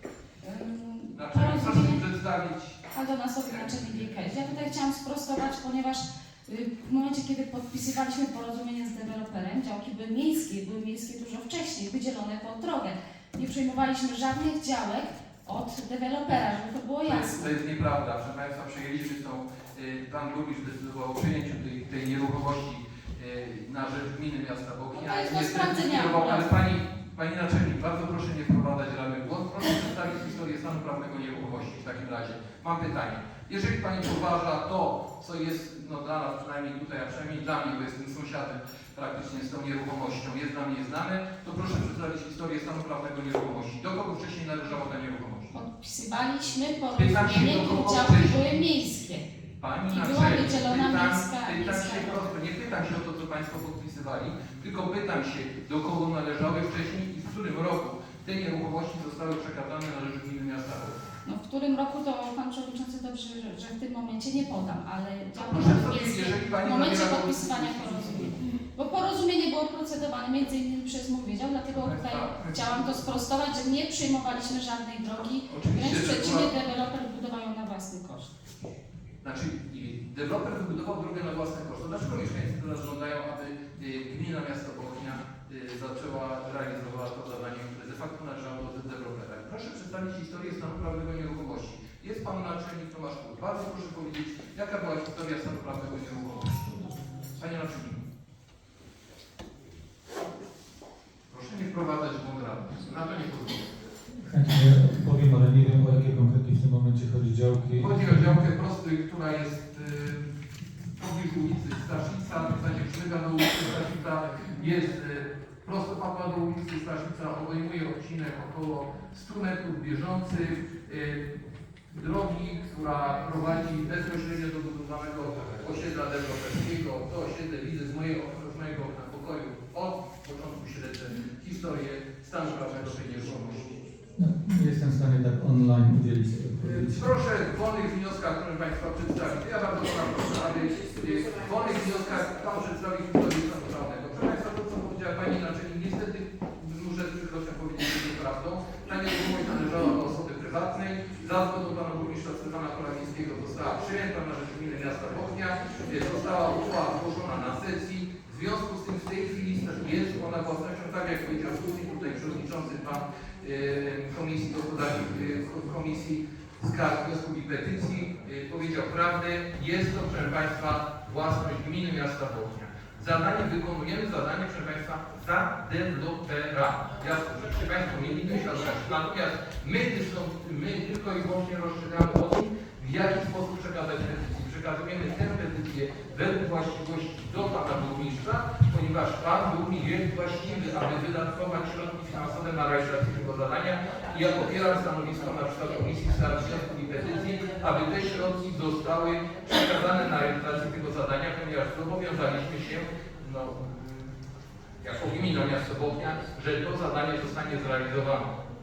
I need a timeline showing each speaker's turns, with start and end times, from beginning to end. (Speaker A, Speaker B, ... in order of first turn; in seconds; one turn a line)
Speaker A: 0.4-2.0
Speaker B: 1.1-2.9
Speaker A: 2.9-17.5
Speaker B: 3.5-4.1
Speaker B: 17.1-45.5
Speaker A: 24.9-26.5
Speaker A: 45.5-49.3
Speaker B: 46.9-48.6
Speaker B: 49.6-61.0
Speaker A: 49.9-52.3
Speaker A: 61.2-78.3
Speaker B: 65.3-68.3
Speaker B: 71.8-73.0
Speaker B: 75.5-76.5
Speaker B: 79.2-98.0
Speaker B: 101.3-103.7
Speaker C: 104.2-108.4
Speaker B: 107.8-110.3
Speaker B: 111.0-121.2
Speaker B: 121.9-133.8
Speaker C: 134.2-137.0
Speaker B: 136.6-204.1
Speaker B: 204.8-208.3